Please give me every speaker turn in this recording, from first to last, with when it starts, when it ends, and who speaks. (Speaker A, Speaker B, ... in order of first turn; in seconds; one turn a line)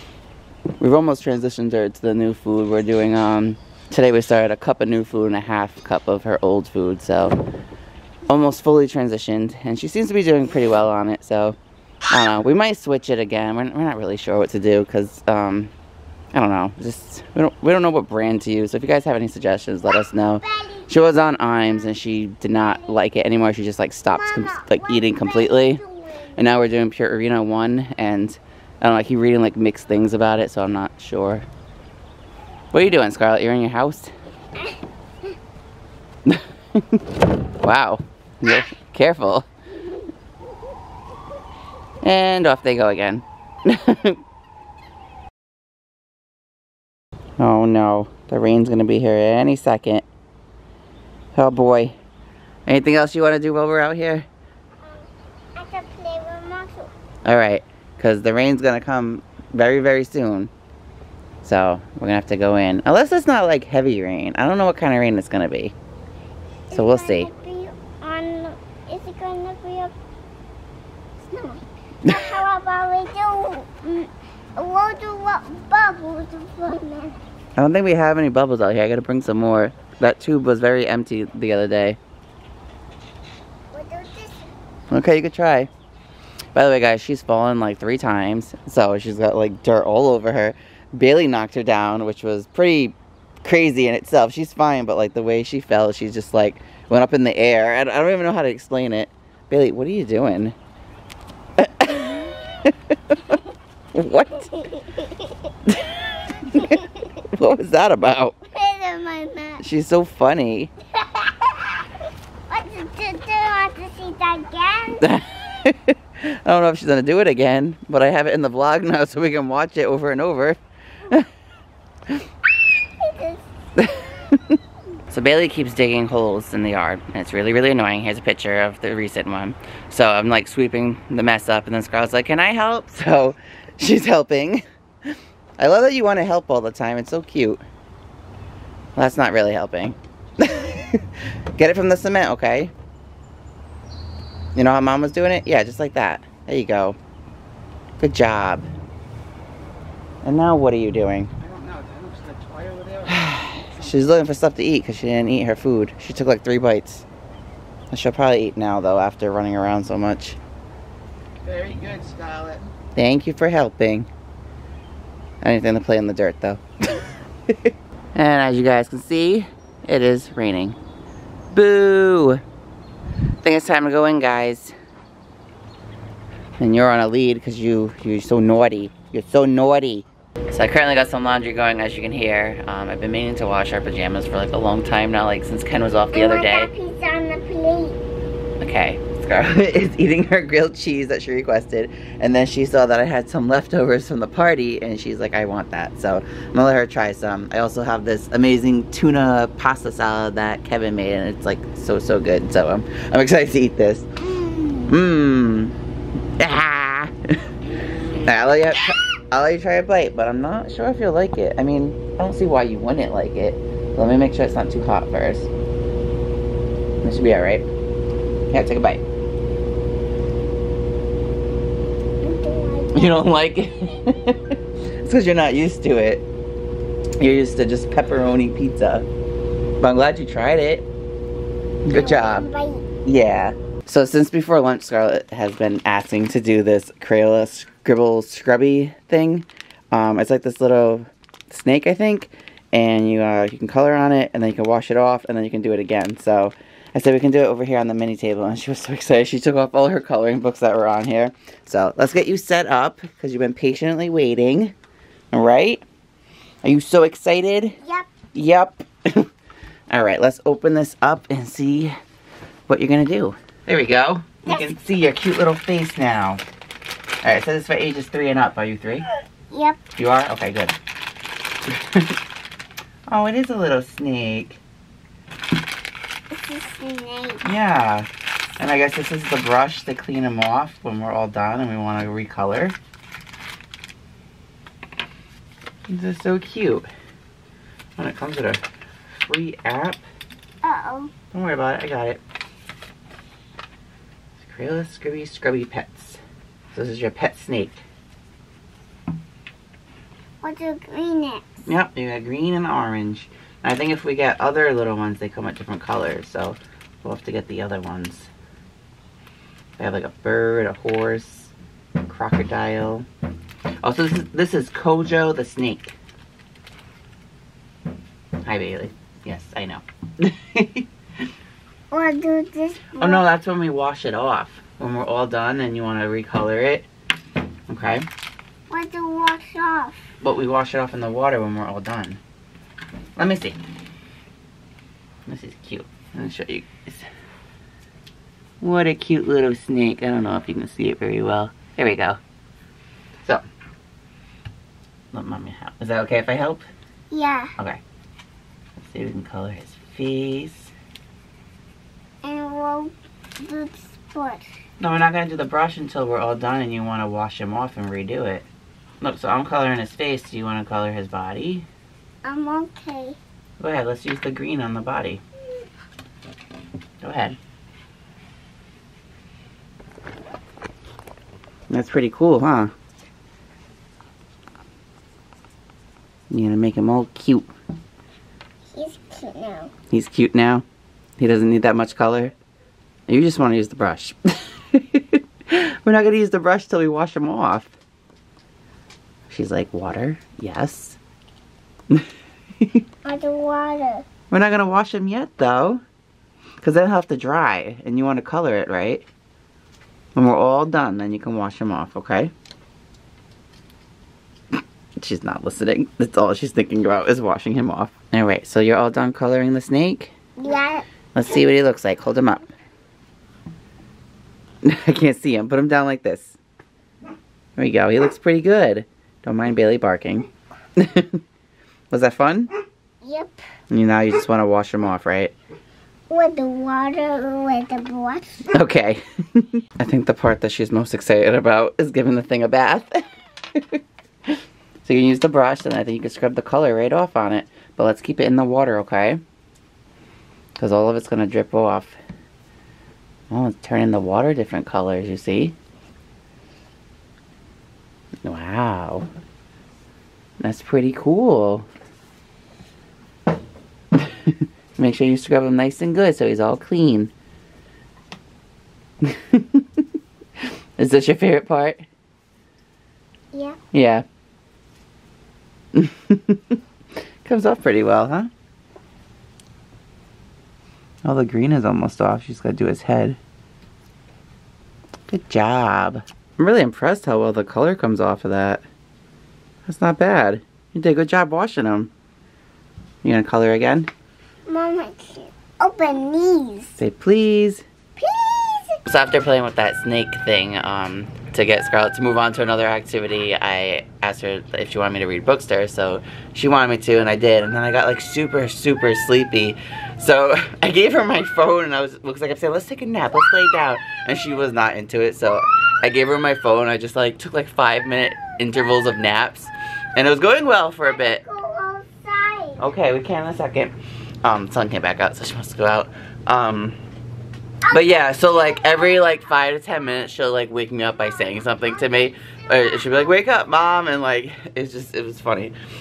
Speaker A: 0.8-7.4
Speaker A: 8.3-11.6
Speaker A: 12.1-15.7
Speaker A: 16.3-25.8
Speaker B: 20.4-20.9
Speaker B: 24.1-26.5
Speaker A: 26.4-31.4
Speaker A: 32.7-34.1
Speaker A: 36.3-37.0
Speaker A: 37.6-39.5
Speaker A: 42.0-44.2
Speaker A: 47.4-50.0
Speaker A: 51.3-51.9
Speaker A: 52.6-54.2
Speaker B: 54.8-56.9
Speaker A: 57.2-60.5
Speaker A: 61.4-65.7
Speaker B: 66.7-69.9
Speaker A: 66.7-67.3
Speaker B: 71.2-77.2
Speaker A: 77.6-82.0
Speaker B: 83.7-84.5
Speaker A: 84.9-85.7
Speaker A: 86.5-100.5
Speaker A: 101.6-103.4
Speaker A: 103.9-104.6
Speaker B: 104.6-105.3
Speaker A: 105.7-108.4
Speaker B: 106.6-106.8
Speaker B: 108.5-109.6
Speaker A: 109.6-110.7
Speaker B: 111.0-111.8
Speaker B: 112.5-115.0
Speaker A: 115.0-121.3
Speaker B: 123.0-123.4
Speaker A: 123.8-124.6
Speaker A: 125.1-134.6
Speaker A: 135.6-137.6
Speaker A: 138.9-142.7
Speaker A: 144.5-147.0
Speaker A: 148.0-148.7
Speaker A: 150.2-151.3
Speaker C: 151.5-153.1
Speaker A: 153.0-157.1
Speaker A: 157.9-160.4
Speaker C: 161.5-162.6
Speaker A: 161.5-161.8
Speaker A: 162.9-164.1
Speaker A: 165.4-166.6
Speaker A: 167.5-170.8
Speaker A: 171.5-172.4
Speaker A: 173.4-174.7
Speaker A: 176.6-186.7
Speaker B: 186.1-188.0
Speaker A: 188.6-204.1
Speaker B: 204.4-204.8
Speaker A: 204.8-205.7
Speaker A: 206.4-207.6
Speaker A: 208.2-215.5
Speaker A: 217.0-217.7
Speaker A: 218.5-219.0
Speaker B: 222.2-223.2
Speaker A: 222.9-226.2
Speaker A: 227.2-229.1
Speaker A: 229.8-230.9
Speaker A: 231.8-232.5
Speaker B: 231.9-232.8
Speaker A: 233.0-254.7
Speaker A: 255.3-255.8
Speaker A: 256.6-257.8
Speaker B: 257.8-258.1
Speaker A: 258.3-259.3
Speaker A: 259.9-261.9
Speaker A: 262.7-266.4
Speaker A: 267.2-269.1
Speaker B: 269.5-269.8
Speaker A: 269.9-270.8
Speaker A: 271.7-272.1
Speaker A: 273.1-274.6
Speaker B: 276.3-277.4
Speaker A: 277.4-278.1
Speaker A: 278.6-282.8
Speaker A: 285.9-286.9
Speaker A: 288.0-290.0
Speaker B: 290.6-291.1
Speaker A: 291.3-292.2
Speaker A: 294.4-296.2
Speaker A: 296.7-297.8
Speaker B: 300.4-301.5
Speaker A: 301.6-308.3
Speaker A: 309.8-311.5
Speaker A: 312.0-313.1
Speaker A: 313.8-315.9
Speaker A: 318.4-320.9
Speaker B: 321.9-323.2
Speaker A: 323.0-326.9
Speaker A: 327.7-328.1
Speaker B: 328.7-330.1
Speaker A: 330.2-332.2
Speaker A: 333.2-333.6
Speaker A: 335.2-337.1
Speaker A: 338.6-342.2
Speaker A: 345.1-346.6
Speaker B: 347.1-347.5
Speaker A: 348.8-350.7
Speaker B: 352.2-354.4
Speaker A: 354.8-358.5
Speaker A: 359.0-361.7
Speaker B: 362.2-363.2
Speaker A: 363.6-365.2
Speaker A: 367.0-367.4
Speaker A: 371.7-372.7
Speaker A: 376.3-377.5
Speaker B: 378.7-379.7
Speaker A: 379.9-380.6
Speaker A: 381.2-382.3
Speaker A: 383.1-387.7
Speaker A: 389.3-391.0
Speaker B: 393.0-394.0
Speaker A: 394.3-395.8
Speaker A: 396.6-399.0
Speaker A: 400.1-402.3
Speaker A: 405.0-410.1
Speaker B: 410.4-410.9
Speaker A: 411.1-412.5
Speaker A: 414.6-416.4
Speaker A: 417.6-421.2
Speaker A: 421.9-422.5
Speaker B: 423.0-423.4
Speaker A: 423.7-425.3
Speaker B: 426.1-428.4
Speaker A: 428.5-433.0
Speaker A: 433.5-434.3
Speaker A: 434.8-439.2
Speaker A: 440.6-442.0
Speaker A: 443.3-445.6
Speaker A: 448.2-449.1
Speaker A: 450.4-451.6
Speaker A: 453.9-457.1
Speaker A: 459.0-459.8
Speaker A: 460.8-461.8
Speaker B: 463.3-463.6
Speaker A: 463.7-464.0
Speaker A: 465.7-466.6
Speaker A: 467.2-468.3
Speaker A: 471.0-473.2
Speaker A: 475.1-478.6
Speaker A: 479.6-481.9
Speaker A: 483.0-483.9
Speaker B: 484.5-486.7
Speaker A: 486.8-487.6
Speaker B: 488.0-488.8
Speaker A: 488.8-511.2
Speaker B: 510.9-512.6
Speaker A: 512.6-516.8
Speaker B: 517.7-519.0
Speaker A: 517.7-525.5